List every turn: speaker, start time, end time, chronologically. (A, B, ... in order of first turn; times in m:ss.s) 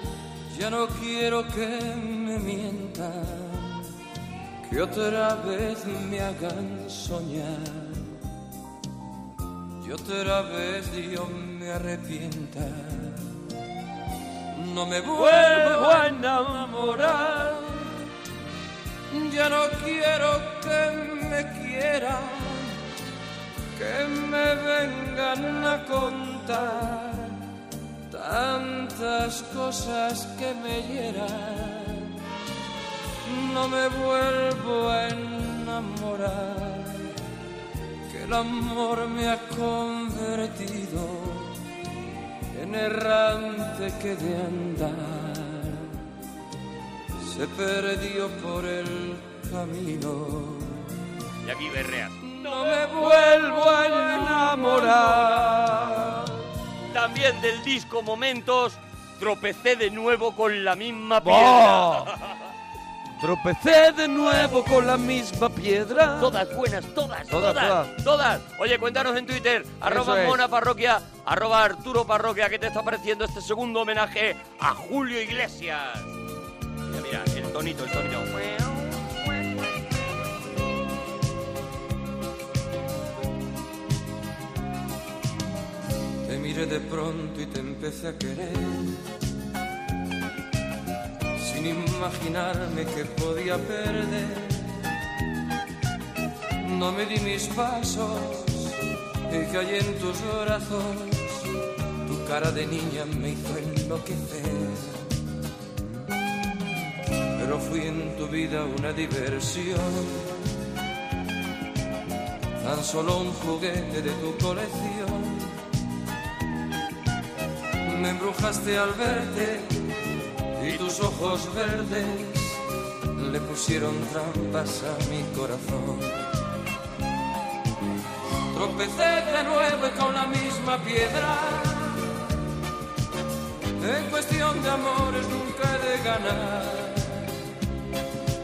0:00.5-0:03.9 A
0:04.6-0:08.2 A
0:09.8-0:13.5 A
0:14.5-0:17.6 A
0:15.2-0:16.1 B
0:16.7-0:17.0 B
0:19.1-0:22.8 A
0:23.7-0:27.4 A
0:28.1-0:32.2 A
0:33.2-0:37.1 A
0:38.1-0:41.6 A
0:42.5-0:46.0 A
0:47.2-0:51.0 A
0:51.4-0:52.3 C
0:52.2-0:55.6 A
0:52.9-0:56.3 B
0:56.9-1:02.2 C
1:01.2-1:02.1 B
1:03.2-1:06.3 B
1:06.1-1:16.1 C
1:07.3-1:07.9 B
1:09.8-1:10.4 B
1:16.9-1:19.0 C
1:26.2-1:29.0 A
1:31.4-1:34.8 A
1:36.6-1:41.5 A
1:42.0-1:45.2 A
1:47.4-1:50.4 A
1:52.6-1:55.6 A
1:57.8-1:59.8 A
2:00.6-2:02.6 A
2:03.2-2:06.3 A
2:08.5-2:12.2 A
2:13.8-2:17.3 A